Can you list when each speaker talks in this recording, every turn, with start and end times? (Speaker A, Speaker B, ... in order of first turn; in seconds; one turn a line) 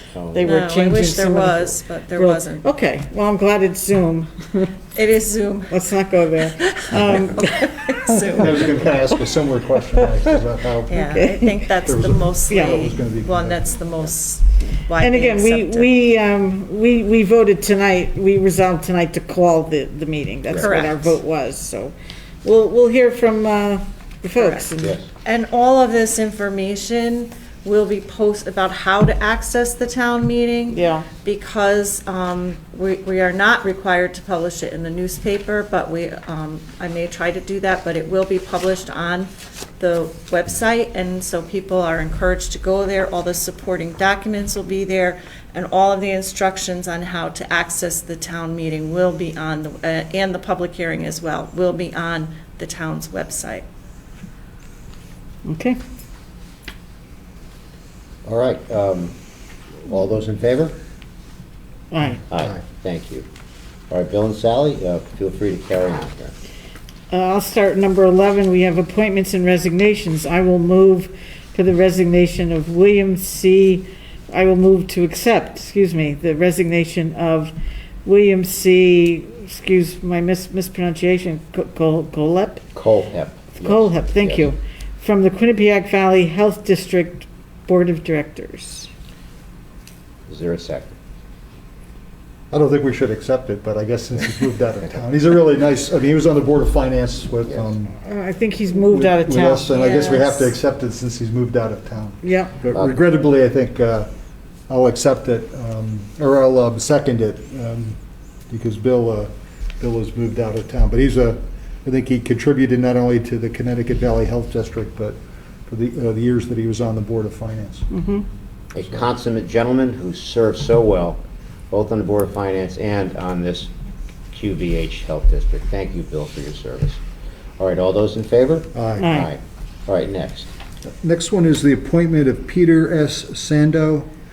Speaker A: 0.1-0.6
Speaker B: 0.3-4.8
Speaker C: 0.4-2.7
Speaker C: 5.0-5.8
Speaker B: 5.7-8.0
Speaker C: 6.4-9.0
Speaker D: 8.4-11.1
Speaker C: 10.9-15.9
Speaker B: 11.0-11.6
Speaker D: 11.8-13.8
Speaker B: 12.5-12.9
Speaker B: 15.0-25.0
Speaker A: 20.5-20.8
Speaker C: 20.6-21.2
Speaker C: 24.4-53.7
Speaker A: 24.8-25.1
Speaker B: 30.7-31.1
Speaker B: 55.5-55.8
Speaker A: 58.2-59.1
Speaker A: 59.8-60.8
Speaker B: 61.9-62.2
Speaker A: 62.3-63.3
Speaker A: 63.9-66.3
Speaker B: 67.1-77.5
Speaker B: 78.0-82.6
Speaker A: 82.8-84.5
Speaker B: 83.6-88.9
Speaker A: 90.3-91.0
Speaker D: 92.5-97.9
Speaker B: 98.0-100.1
Speaker D: 98.8-104.1
Speaker C: 99.7-100.5
Speaker B: 102.2-102.6
Speaker D: 104.7-108.0
Speaker D: 108.5-117.9
Speaker B: 117.9-118.2
Speaker A: 118.7-123.7
Speaker A: 124.3-127.0
Speaker A: 127.6-130.5
Speaker D: 128.7-129.2
Speaker B: 129.0-129.3
Speaker D: 130.9-134.1